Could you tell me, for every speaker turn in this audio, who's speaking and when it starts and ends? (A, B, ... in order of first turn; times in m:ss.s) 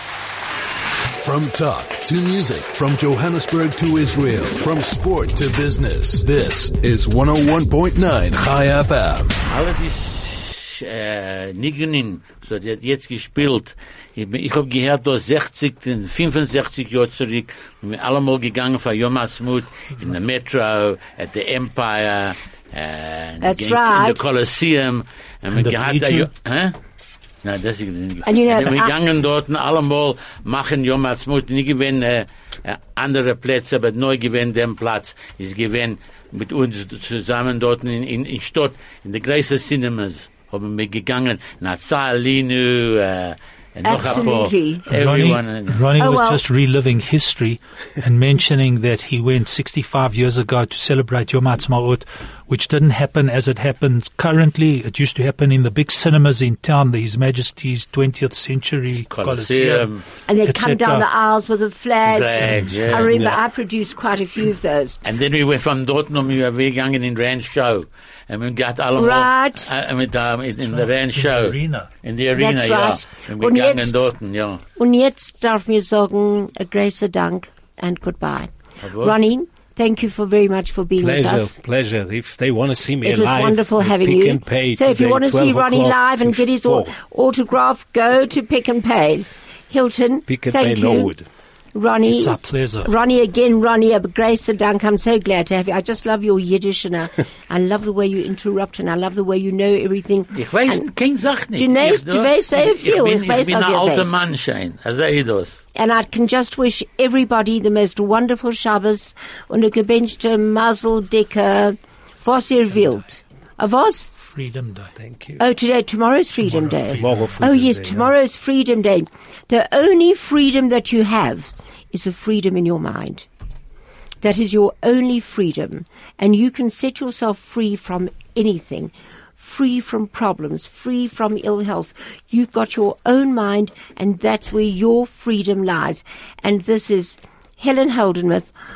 0:01.1-0:09.3 A
0:09.5-0:26.8 B
0:23.4-0:24.2 C
0:25.5-0:26.3 D
0:27.4-0:45.8 B
0:28.2-0:29.0 C
0:43.8-0:44.9 C
0:44.9-0:59.9 D
0:46.0-0:46.4 C
0:59.1-1:00.0 B
1:00.3-1:05.0 C
1:00.4-1:01.1 D
1:02.1-1:03.1 B
1:02.4-1:03.1 D
1:03.1-1:03.4 E
1:05.0-1:14.6 B
1:09.0-1:09.7 C
1:10.6-1:11.9 D
1:12.3-1:14.0 C
1:14.8-1:21.5 C
1:18.8-1:19.2 B
1:21.0-1:26.9 E
1:23.0-1:31.1 C
1:30.3-1:31.3 E
1:31.7-1:40.9 C
1:32.1-1:32.9 D
1:40.3-1:45.6 B
1:41.5-1:44.1 C
1:45.7-1:54.1 C
1:54.2-1:54.9 D
1:55.0-1:55.4 E
1:55.4-2:03.2 C
1:56.4-1:57.3 D
1:56.9-1:58.1 E
2:04.2-2:18.5 C